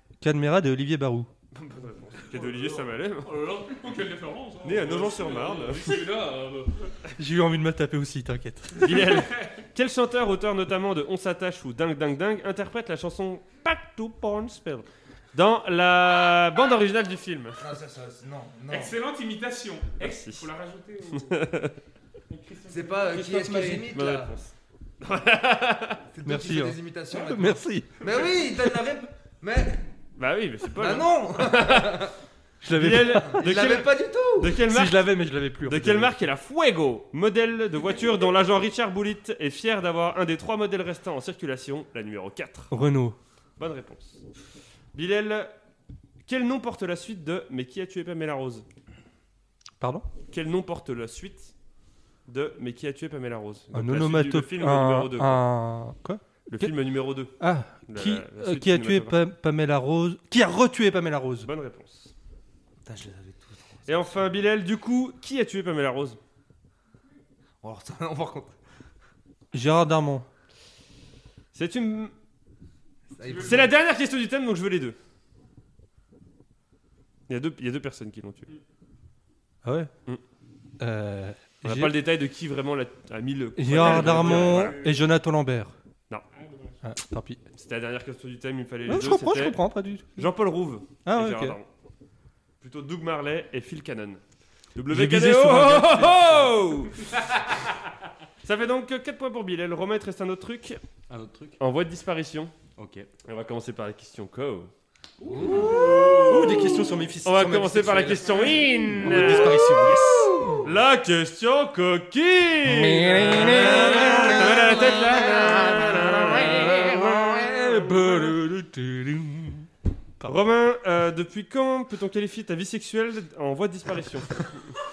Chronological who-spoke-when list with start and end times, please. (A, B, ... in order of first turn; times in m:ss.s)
0:00.2-0:01.3 A
0:01.5-0:03.4 B
0:02.3-0:06.9 C
0:04.6-0:06.0 B
0:04.6-0:06.5 D
0:07.2-0:09.0 A
0:08.8-0:17.6 B
0:09.1-0:09.5 C
0:17.6-0:18.9 E
0:18.7-0:21.5 C
0:20.0-0:20.5 B
0:21.1-0:21.8 B
0:22.3-0:23.9 C
0:22.7-0:24.3 E
0:23.2-0:23.8 A
0:23.9-0:26.0 B
0:26.1-0:29.9 E
0:26.2-0:28.0 A
0:30.2-0:32.0 B
0:30.8-0:32.1 E
0:32.6-0:33.5 A
0:32.7-0:42.7 B
0:32.8-0:34.6 E
0:34.6-0:36.2 A
0:42.7-0:43.2 A
0:43.6-0:44.2 B
0:44.9-0:45.5 B
0:46.2-0:48.6 B
0:49.8-0:50.0 A
0:50.3-0:51.5 B
0:52.3-0:55.4 B
0:53.7-0:56.7 A
0:56.5-0:57.3 B
0:57.4-1:01.5 A
0:57.9-0:59.2 B
1:01.4-1:02.1 B
1:02.8-1:04.3 E
1:03.9-1:06.2 B
1:07.6-1:08.6 E
1:09.5-1:10.2 A
1:11.5-1:12.1 B
1:13.1-1:13.7 E
1:13.2-1:13.7 C
1:13.4-1:15.0 B
1:17.3-1:18.5 B
1:19.6-1:19.9 A
1:20.8-1:22.0 A
1:21.6-1:24.8 B
1:23.6-1:25.7 A
1:23.7-1:25.0 C
1:26.3-1:26.8 C
1:26.8-1:27.4 A
1:27.5-1:31.7 B
1:28.9-1:30.3 A
1:31.0-1:31.6 A
1:32.6-1:34.2 B
1:34.7-1:37.1 B
1:34.9-1:36.4 A
1:38.4-1:40.8 B
1:41.1-1:41.6 D
1:41.6-1:42.5 B
1:42.8-1:43.1 D
1:43.2-1:44.7 B
1:45.2-1:46.2 E
1:45.5-1:49.7 B
1:45.5-1:46.2 D
1:46.2-1:50.6 A
1:50.6-1:58.4 B
1:52.7-1:59.7 A
2:00.2-2:04.8 B